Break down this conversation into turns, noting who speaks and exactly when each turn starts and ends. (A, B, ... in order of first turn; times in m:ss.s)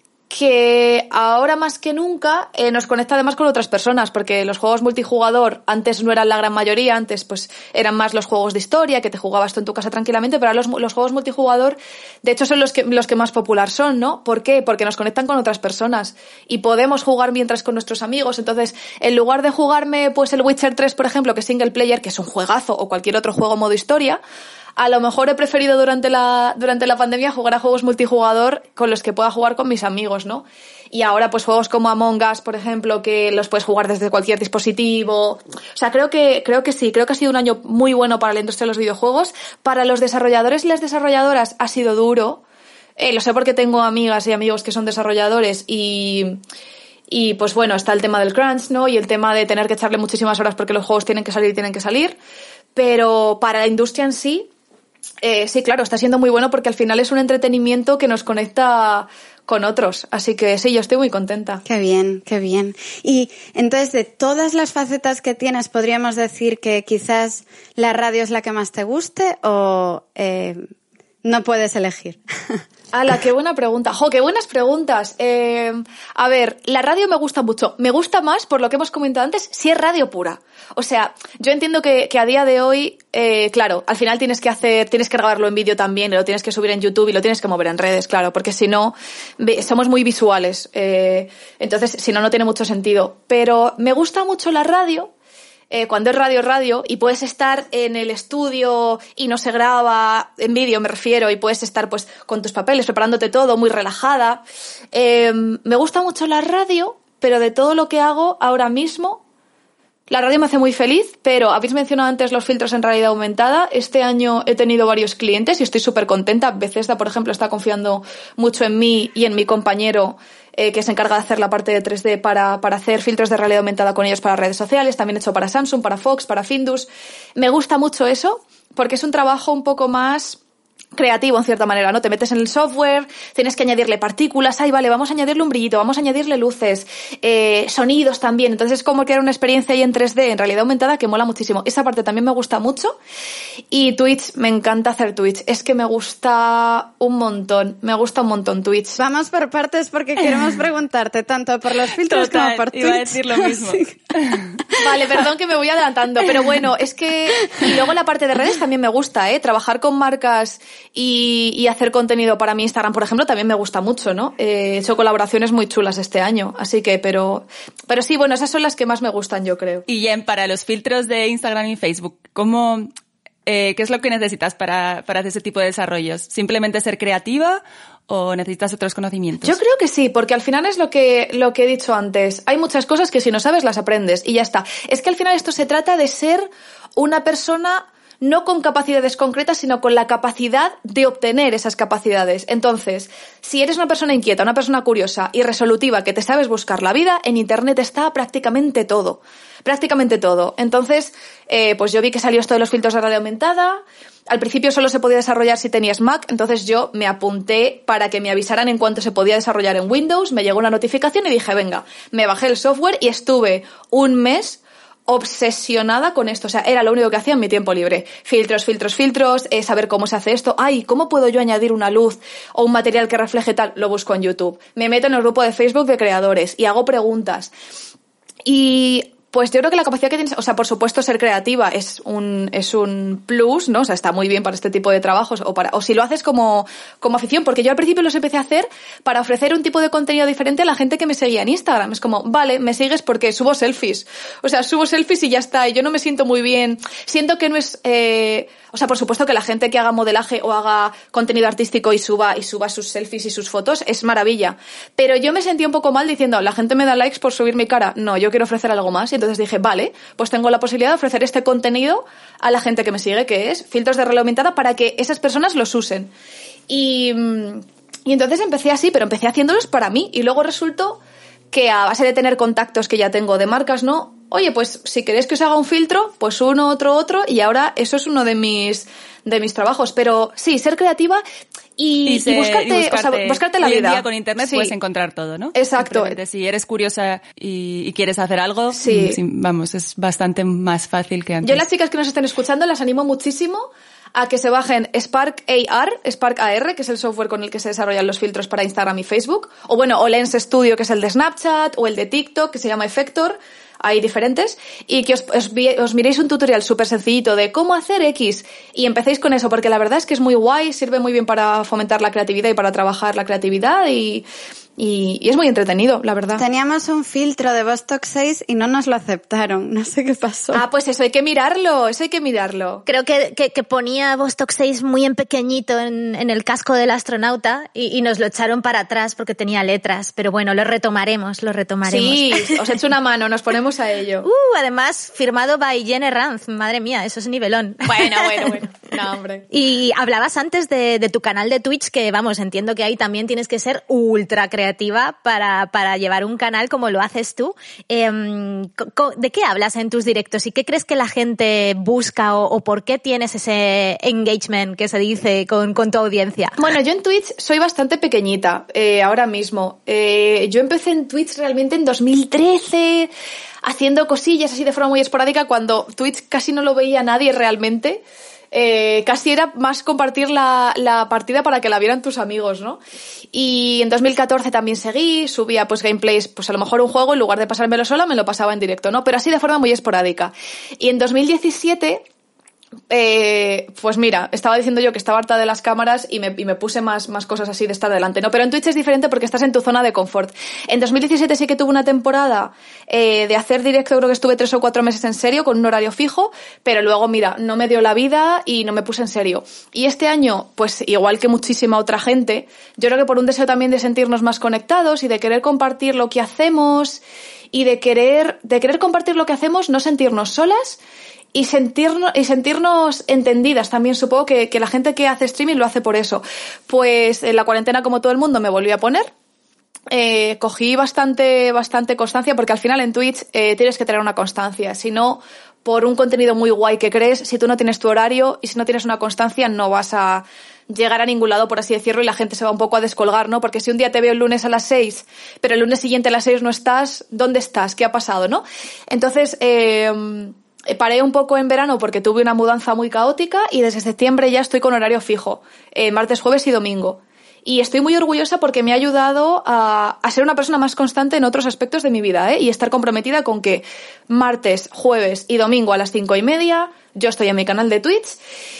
0:00.3-0:24.2 A
0:24.8-0:42.4 A
0:43.0-0:46.4 A
0:47.1-0:52.2 A
0:52.8-0:54.5 A
0:55.2-1:01.6 A
1:01.6-1:10.7 B
1:11.2-1:12.6 B
1:12.9-1:35.1 A
1:35.7-1:44.4 A
1:44.9-1:49.2 A
1:50.1-2:10.4 A
2:11.0-2:23.0 A
2:23.7-2:29.0 A
2:29.0-2:33.9 B
2:32.0-2:34.6 C
2:34.8-2:49.9 A
2:49.9-2:52.9 C
2:53.5-2:59.6 C
2:59.4-3:47.5 A
3:48.4-4:26.1 A
4:26.7-4:41.2 A
4:41.8-4:44.7 A
4:42.1-4:51.6 C
4:45.6-4:46.2 A
4:48.7-4:49.2 A
4:51.4-5:14.2 A
5:14.8-5:16.4 A
5:16.4-5:20.6 B
5:20.5-5:22.8 A
5:22.9-5:32.6 D
5:31.8-5:34.3 A
5:34.2-5:38.5 D
5:37.8-5:39.5 A
5:39.5-5:56.6 D
5:56.6-6:03.1 A
6:03.6-6:08.0 A
6:08.5-6:12.8 A
6:13.3-6:22.0 A
6:22.9-6:50.8 A
6:51.3-6:59.1 A
6:59.9-7:38.2 A